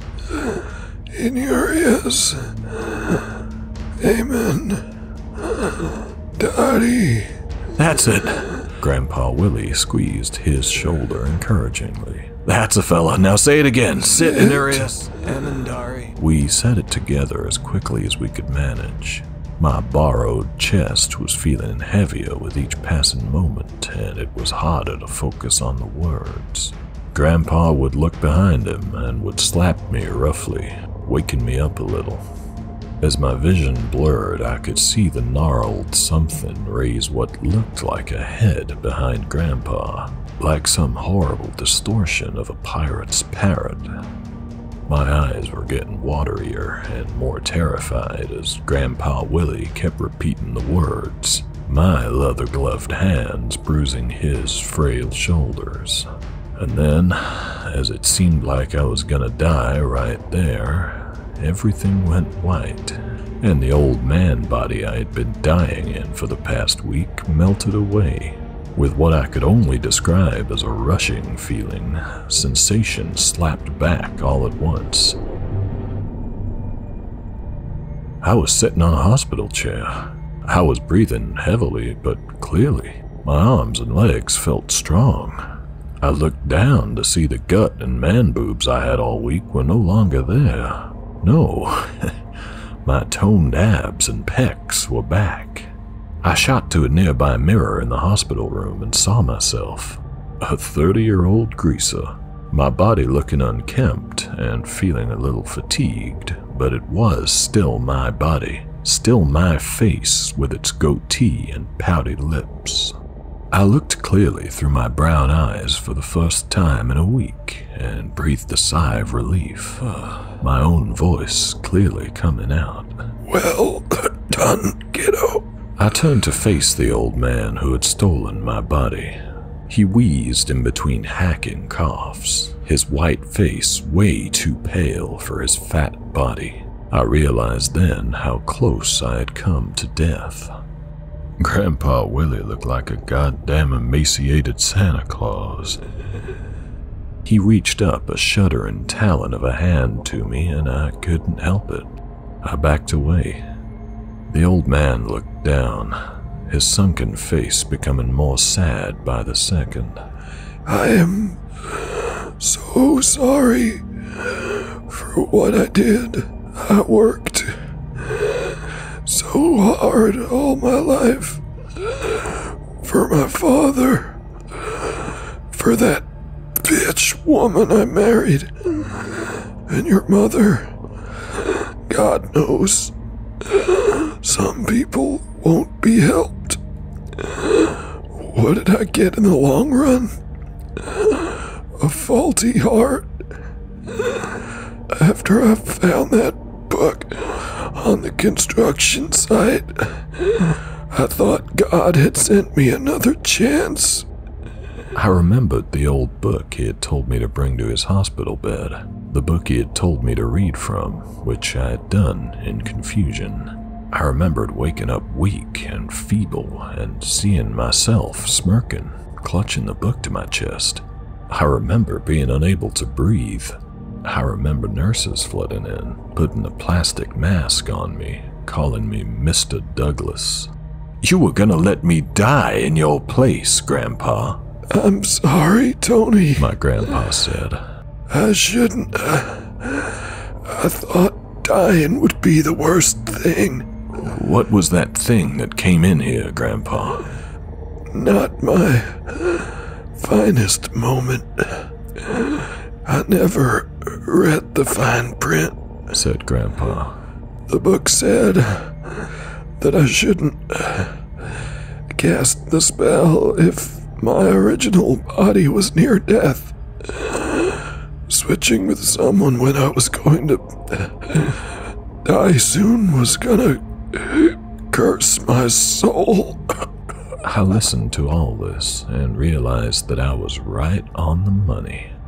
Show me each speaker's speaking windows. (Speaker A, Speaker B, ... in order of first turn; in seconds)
Speaker A: 0.3-3.4, 4.0-4.8, 5.4-7.3, 14.2-14.8, 123.3-125.5, 160.7-186.6, 187.2-190.1, 190.8-193.1, 193.9-204.1, 234.7-236.5, 238.1-243.7, 247.9-255.6, 257.5-276.4
Speaker B: 7.8-32.3, 33.0-43.9, 44.9-75.2, 78.2-80.0, 80.5-85.4, 86.0-92.1, 92.8-95.7, 96.2-113.0, 113.5-123.0, 125.8-129.2, 129.7-140.5, 141.4-145.8, 147.2-151.9, 152.4-153.4, 154.3-156.0, 156.5-160.0, 204.9-230.5, 231.0-234.4, 236.4-237.6, 243.9-247.1, 255.9-257.0, 277.2-281.9